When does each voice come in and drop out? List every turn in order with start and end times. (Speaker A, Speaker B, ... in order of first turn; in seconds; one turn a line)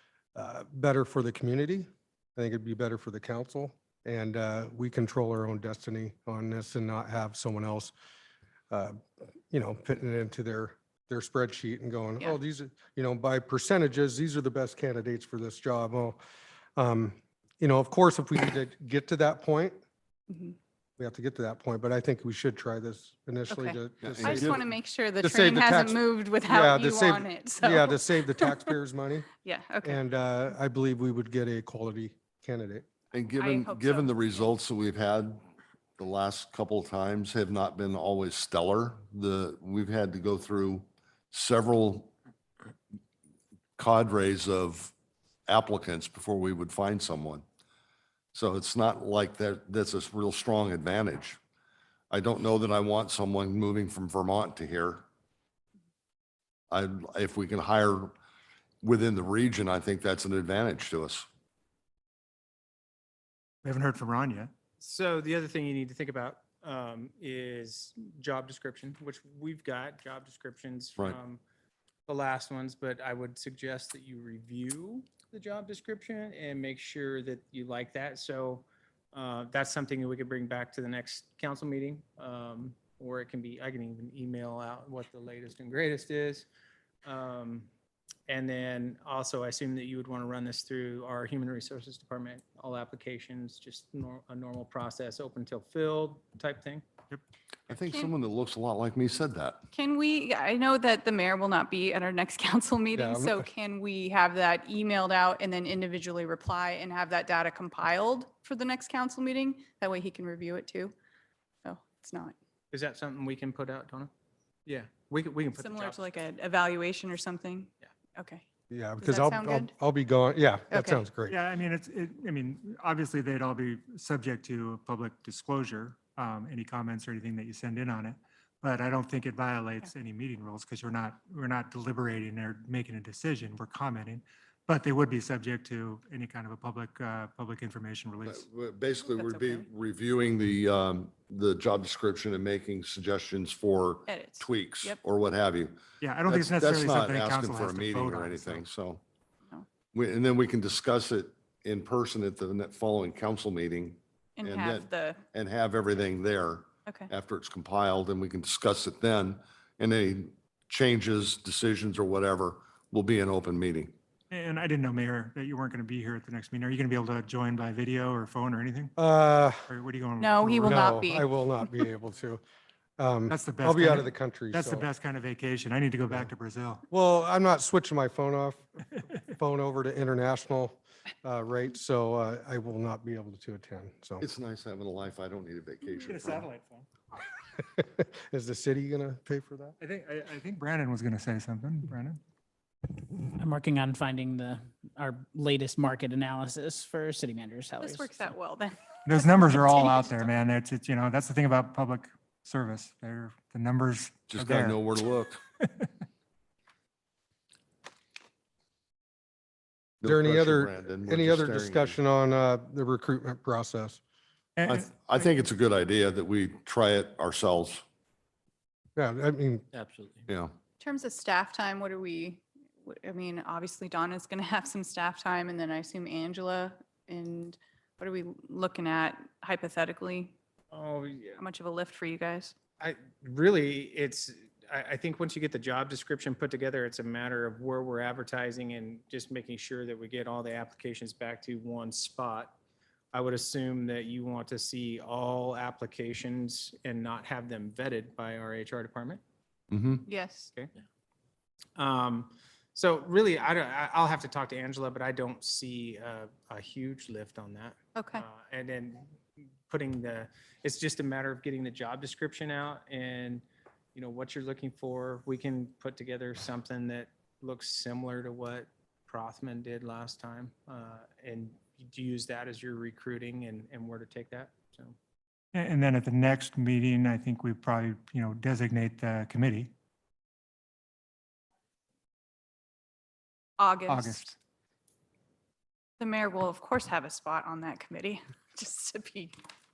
Speaker A: 0.3-7.9
Speaker A: 8.7-16.2
Speaker A: 16.8-19.8
Speaker B: 20.3-20.6
Speaker A: 21.0-24.6
Speaker B: 23.5-28.5
Speaker C: 24.0-24.6
Speaker A: 25.2-29.3
Speaker B: 29.4-30.0
Speaker A: 29.8-32.9
Speaker C: 33.1-35.4
Speaker B: 33.4-34.5
Speaker C: 36.0-42.1
Speaker C: 43.8-44.9
Speaker C: 45.5-47.4
Speaker C: 48.3-51.4
Speaker C: 52.1-55.0
Speaker C: 56.7-58.1
Speaker C: 58.8-61.3
Speaker D: 63.6-64.5
Speaker E: 64.8-71.4
Speaker E: 72.0-86.5
Speaker E: 87.0-87.7
Speaker E: 88.3-96.8
Speaker C: 97.7-99.6
Speaker B: 99.7-110.9
Speaker A: 102.9-103.4
Speaker B: 111.6-112.3
Speaker E: 112.7-114.1
Speaker E: 114.7-116.0
Speaker B: 115.6-118.4
Speaker A: 118.7-121.4
Speaker B: 119.0-119.7
Speaker B: 120.7-121.0
Speaker D: 121.3-138.4
Speaker C: 138.2-145.8
Speaker B: 139.1-139.7
Speaker B: 144.1-145.0
Speaker D: 146.0-148.7
Speaker C: 146.3-149.0
Speaker C: 149.9-163.9
Speaker B: 154.4-155.2
Speaker D: 164.3-168.9
Speaker A: 169.0-169.7
Speaker D: 169.7-171.0
Speaker B: 170.2-171.3
Speaker A: 170.6-172.4
Speaker A: 173.0-174.8
Speaker D: 173.3-176.8
Speaker A: 176.9-184.2
Speaker C: 184.2-186.5
Speaker D: 186.0-186.8
Speaker A: 187.7-189.8
Speaker D: 189.8-192.2
Speaker F: 193.3-198.3
Speaker B: 197.8-200.3
Speaker D: 199.0-204.8
Speaker C: 204.3-205.4
Speaker C: 210.0-212.0
Speaker A: 210.0-214.0
Speaker D: 214.6-214.9
Speaker C: 214.7-217.8
Speaker A: 218.9-219.6
Speaker E: 219.7-220.2
Speaker C: 220.3-220.5
Speaker B: 220.8-230.3
Speaker E: 230.7-231.4
Speaker B: 231.4-232.5
Speaker E: 232.8-242.5
Speaker E: 243.1-249.2
Speaker C: 249.7-250.0
Speaker B: 250.1-250.5
Speaker E: 251.8-259.1
Speaker B: 258.0-258.2
Speaker E: 259.7-263.4
Speaker E: 263.9-275.0
Speaker D: 275.5-279.7
Speaker B: 283.6-284.3
Speaker D: 283.9-284.3
Speaker B: 286.0-289.4